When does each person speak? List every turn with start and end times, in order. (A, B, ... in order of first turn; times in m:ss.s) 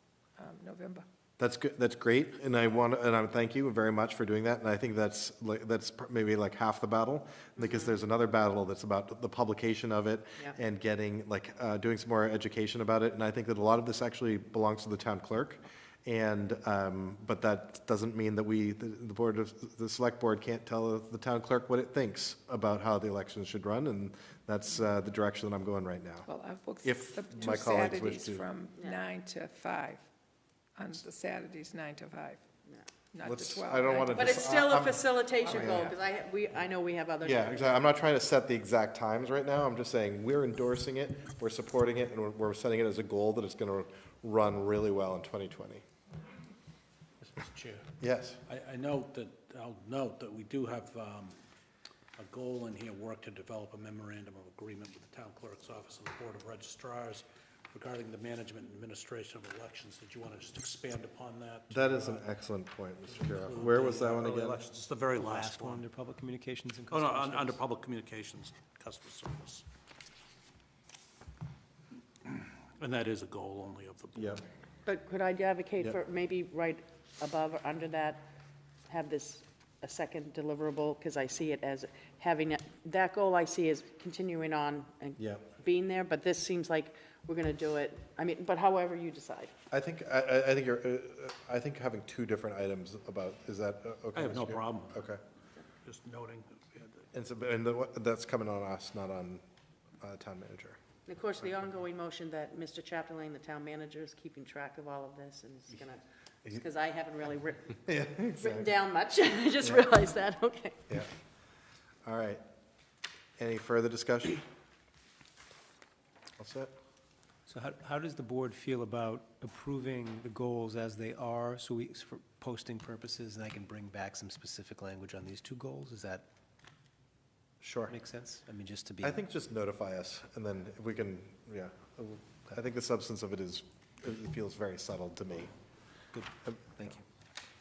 0:00.4-0:01.0 A
0:01.4-0:26.3 B
0:07.6-0:07.9 C
0:26.3-0:30.0 A
0:26.8-0:28.4 B
0:30.8-0:32.4 A
0:33.1-0:34.5 A
0:33.2-0:35.9 B
0:34.1-0:37.8 C
0:37.2-0:45.8 B
0:47.2-0:47.9 D
0:48.0-0:48.4 B
0:48.5-0:51.4 D
0:52.2-1:02.3 D
1:01.7-1:04.6 B
1:03.1-1:05.8 D
1:05.2-1:07.6 E
1:06.9-1:09.6 D
1:12.2-1:14.4 D
1:14.2-1:14.4 B
1:14.9-1:18.2 C
1:18.9-1:29.6 C
1:25.2-1:25.4 B
1:29.7-1:35.2 B
1:34.2-1:35.1 D
1:35.8-1:37.0 D
1:37.1-1:39.4 B
1:40.0-1:40.8 B
1:41.1-1:50.9 C
1:47.9-1:48.7 B
1:49.6-1:49.9 B
1:52.0-1:52.4 B
1:53.4-1:54.4 B
1:56.4-1:56.7 B
1:57.5-2:06.3 E
2:07.6-2:07.9 B
2:07.9-2:09.2 E
2:09.0-2:15.5 B
2:16.1-2:17.0 E